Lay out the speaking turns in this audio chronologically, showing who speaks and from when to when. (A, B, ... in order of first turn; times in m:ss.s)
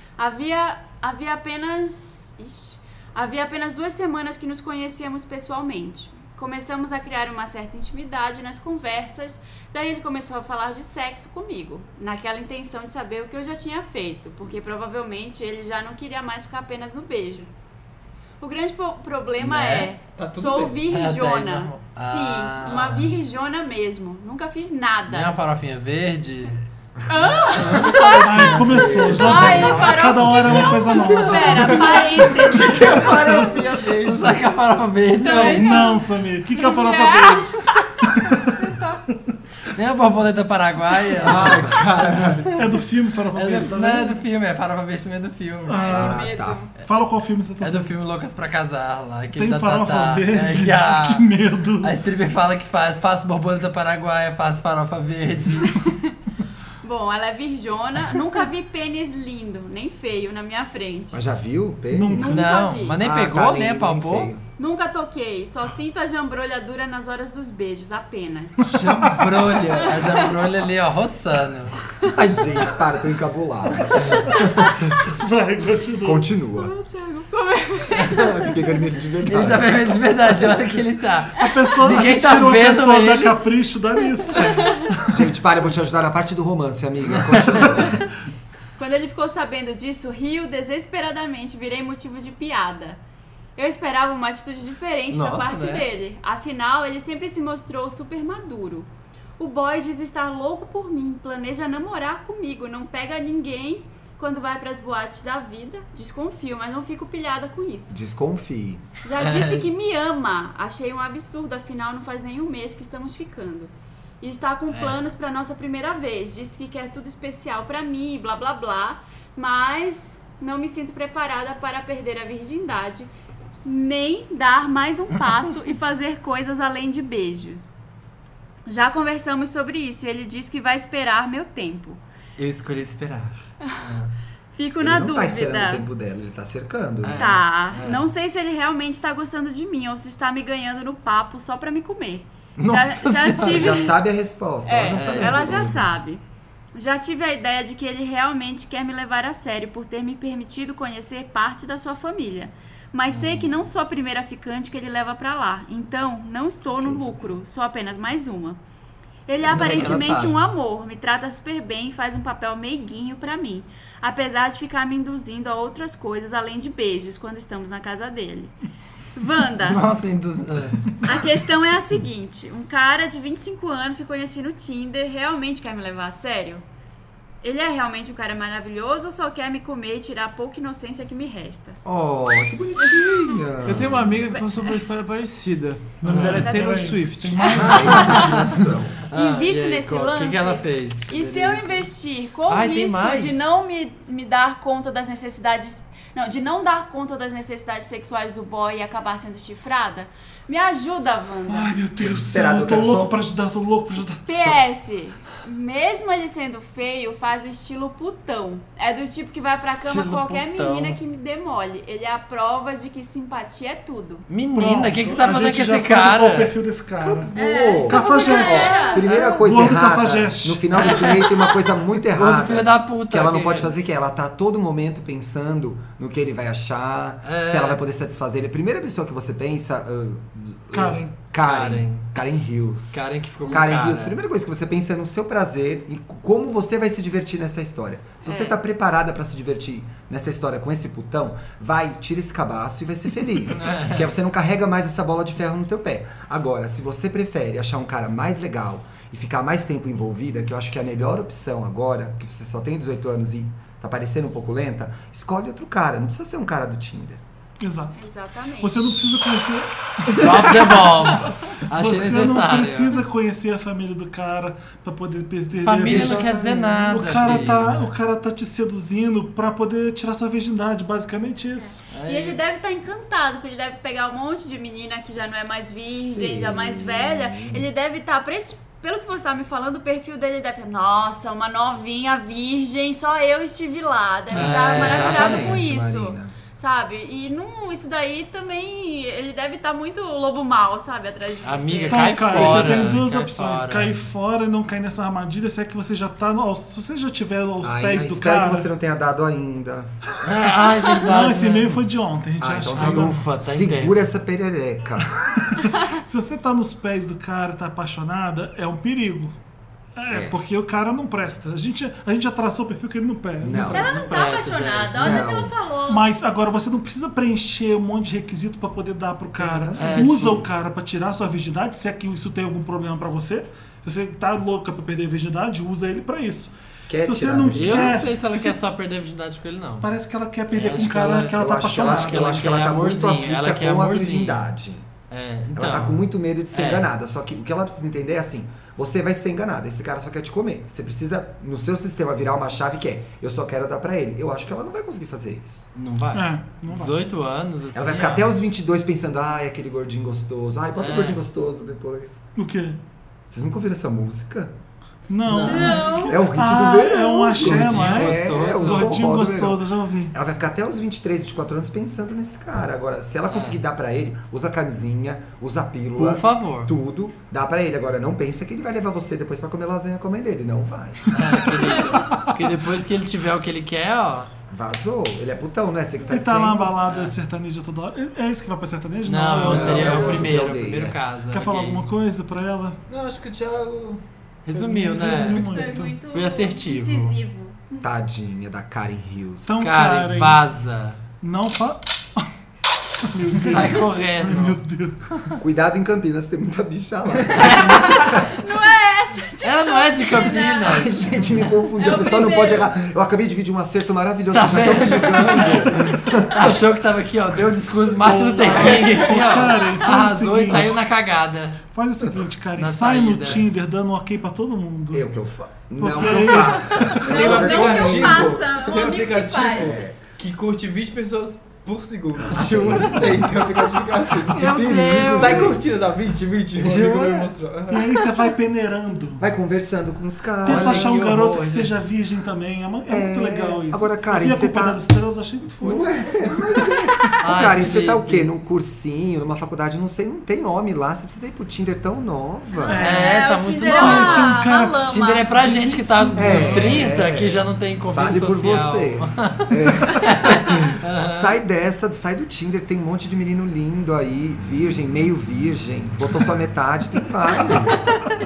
0:00.2-0:17.5 A
0:18.4-0:25.4 A
0:19.4-0:19.9 B
0:20.1-0:20.8 C
0:20.9-0:23.1 B
0:25.1-0:26.6 B
0:27.1-0:33.5 A
0:27.5-0:28.2 B
0:28.0-0:32.2 D
0:28.3-0:30.1 E
0:32.4-0:34.4 C
0:34.0-0:35.8 B
0:35.2-0:36.0 A
0:35.3-0:37.6 D
0:36.5-0:39.0 A
0:39.7-0:41.8 B
0:41.2-0:42.6 C
0:42.5-0:44.2 D
0:43.3-0:46.0 B
0:45.7-0:46.3 D
0:45.7-0:46.7 A
0:45.9-0:46.6 E
0:46.8-0:47.9 D
0:47.6-0:51.3 B
0:49.3-0:51.9 D
0:51.8-0:55.8 B
0:55.6-0:56.1 A
0:56.8-1:01.2 A
1:01.1-1:04.4 E
1:01.9-1:02.5 D
1:02.1-1:03.0 A
1:02.2-1:04.3 B
1:04.6-1:08.8 A
1:08.7-1:11.8 B
1:08.8-1:09.2 D
1:09.6-1:10.3 A
1:12.0-1:14.8 E
1:15.1-1:16.3 D
1:16.0-1:16.7 E
1:16.6-1:18.5 A
1:18.1-1:19.7 E
1:19.2-1:23.4 B
1:21.4-1:25.1 D
1:24.4-1:24.9 A
1:25.1-1:28.0 E
1:27.3-1:27.6 B
1:27.7-1:28.0 A
1:28.8-1:33.0 A
1:33.6-1:48.0 A
1:35.1-1:35.9 B
1:47.9-1:48.8 E
1:49.0-2:03.1 A
1:49.2-1:49.7 B
1:54.7-1:55.0 B
2:03.6-2:07.7 A
2:08.7-2:12.0 A
2:12.4-2:14.1 B
2:14.5-2:15.8 A
2:14.8-2:17.4 E
2:17.0-2:18.0 B
2:17.1-2:23.9 A
2:22.6-2:23.8 B
2:23.2-2:25.9 E
2:24.6-2:26.2 A
2:24.9-2:25.6 B
2:26.7-2:38.6 A
2:33.1-2:33.4 E
2:36.8-2:37.1 E
2:39.3-2:48.5 A
2:39.4-2:40.3 E
2:39.4-2:40.3 B
2:49.2-2:49.8 A
2:49.6-2:51.0 B
2:51.0-2:56.6 A
2:57.4-3:01.8 A
3:01.8-3:04.2 E
3:03.6-3:07.8 C
3:06.0-3:08.6 D
3:06.1-3:06.4 B
3:06.4-3:06.8 A
3:07.6-3:09.0 E
3:07.6-3:08.4 B
3:07.6-3:08.4 A
3:09.1-3:11.9 B
3:09.1-3:21.7 A
3:12.5-3:13.4 B
3:21.5-3:24.2 D
3:22.0-3:23.2 E
3:24.3-3:34.3 A
3:29.8-3:31.0 B
3:34.3-3:36.5 B
3:34.5-3:41.2 D
3:37.0-4:17.2 E
3:37.3-3:39.4 A
3:40.7-3:41.4 B
3:42.1-3:43.7 B
3:47.2-3:47.8 B
3:50.7-3:51.1 D
3:51.4-3:52.0 B
3:52.9-3:54.2 B
3:58.2-3:58.5 A
4:03.5-4:04.1 B
4:17.6-4:18.0 D
4:17.9-4:18.9 A
4:18.6-4:31.8 D
4:20.1-4:23.0 B
4:25.5-4:27.9 B
4:25.8-4:26.5 E
4:31.9-4:32.5 B
4:32.0-4:52.8 A
4:35.8-4:37.7 E
4:44.3-4:45.6 B
4:44.3-4:46.3 E
4:51.4-4:53.9 B
4:51.9-4:58.7 D
4:52.4-4:52.7 E
4:57.6-4:59.9 E
5:00.2-5:01.8 B
5:00.8-5:03.2 D
5:02.4-5:05.2 E
5:02.7-5:03.9 B
5:06.0-5:09.3 D
5:10.0-5:14.0 D
5:10.1-5:10.4 E
5:13.4-5:13.9 E
5:13.7-5:16.0 A
5:13.7-5:15.2 B
5:15.0-5:15.5 E
5:15.9-5:28.6 D
5:19.4-5:20.4 E
5:19.8-5:20.4 B
5:26.9-5:28.1 E
5:27.5-5:29.9 B
5:29.8-5:32.5 D
5:30.5-5:34.4 B
5:31.3-5:34.9 E
5:35.1-5:36.0 B
5:35.5-5:45.7 E
5:36.5-5:36.9 B
5:45.7-5:48.3 B
5:46.1-5:46.9 D
5:47.7-5:52.2 E
5:50.8-5:51.2 B
5:52.4-5:52.8 D
5:53.3-5:54.5 E
5:55.1-6:00.1 D
5:55.2-5:55.9 B
5:55.4-5:56.2 A
5:56.0-6:11.4 E
5:57.4-5:59.0 B
6:03.3-6:03.6 B
6:06.0-6:06.7 B
6:11.1-6:14.3 B
6:14.5-6:16.8 E
6:16.1-6:20.4 D
6:16.8-6:17.1 B
6:19.0-6:21.9 B
6:19.4-6:21.0 E
6:21.3-6:22.8 D
6:22.9-6:24.0 C
6:24.4-6:27.2 B
6:24.5-6:26.0 D
6:25.0-6:27.9 A
6:27.8-6:29.7 E
6:29.4-6:30.4 D
6:29.6-6:31.0 B
6:31.2-6:32.3 D
6:33.0-6:35.3 D
6:33.4-6:34.6 B
6:35.4-6:38.4 E
6:37.3-6:38.1 B
6:37.9-6:40.9 A
6:39.4-6:41.0 B
6:40.6-6:46.6 E
6:41.8-6:42.7 A
6:44.3-6:51.6 B
6:48.0-6:50.8 D
6:51.7-6:55.0 D
6:52.6-6:53.4 B
6:54.9-6:58.4 E
6:55.8-6:57.0 D
6:56.8-6:59.8 A
6:56.9-7:07.9 C
6:59.5-7:00.0 E
7:02.3-7:03.4 E
7:04.3-7:05.6 E
7:04.3-7:05.6 B
7:06.6-7:07.3 B
7:07.7-7:09.2 D
7:09.2-7:11.2 E
7:10.4-7:16.6 D
7:10.4-7:11.7 B
7:12.9-7:14.8 E
7:15.6-7:22.8 E
7:17.2-7:18.3 B
7:22.6-7:25.6 A
7:22.7-7:27.1 D
7:22.8-7:31.4 B
7:26.1-7:38.0 E